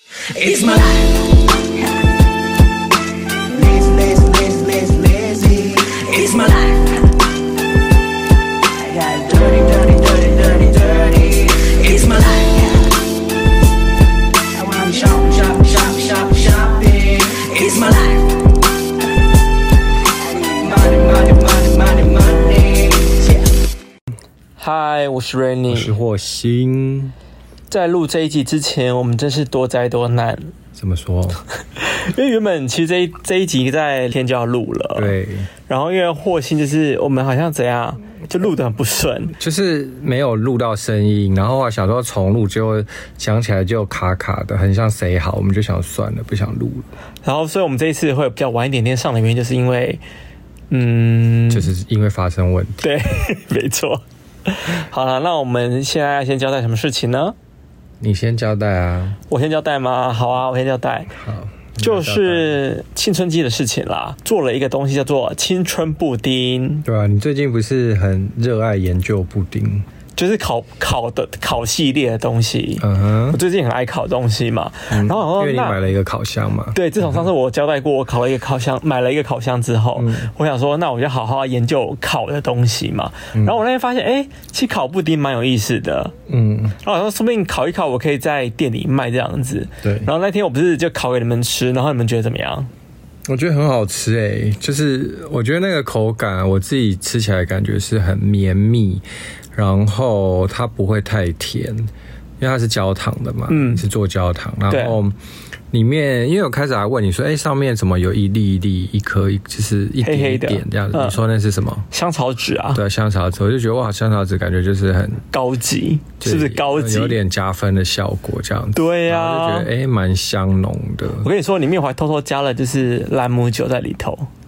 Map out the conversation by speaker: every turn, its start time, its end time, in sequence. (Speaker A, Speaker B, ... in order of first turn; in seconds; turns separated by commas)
Speaker A: 0.2-1.4, Speaker A: 3.5-7.0, Speaker A: 8.8-13.0, Speaker A: 14.5-18.4, Speaker A: 20.3-23.5, Speaker B: 24.6-25.9, Speaker C: 25.7-27.1, Speaker B: 27.7-30.5, Speaker C: 30.8-31.4, Speaker B: 31.8-39.4, Speaker C: 35.0-35.5, Speaker C: 39.4-46.9, Speaker B: 47.2-50.0, Speaker B: 50.7-51.7, Speaker C: 51.5-52.9, Speaker B: 52.8-57.4, Speaker C: 58.0-59.2, Speaker B: 59.3-61.1, Speaker C: 61.2-62.6, Speaker B: 61.8-66.8, Speaker C: 66.8-69.9, Speaker B: 70.2-75.8, Speaker C: 72.8-73.4, Speaker C: 74.9-77.2, Speaker B: 76.7-86.1, Speaker C: 80.0-80.3, Speaker C: 86.3-86.8, Speaker B: 86.8-92.7, Speaker C: 89.8-90.1, Speaker C: 93.3-105.2, Speaker B: 103.5-103.8, Speaker B: 104.7-105.0, Speaker C: 105.7-111.9, Speaker B: 110.0-111.2, Speaker B: 111.9-112.8, Speaker C: 112.7-115.2, Speaker B: 115.3-117.2, Speaker C: 116.2-121.3, Speaker B: 118.8-119.7, Speaker B: 121.2-124.3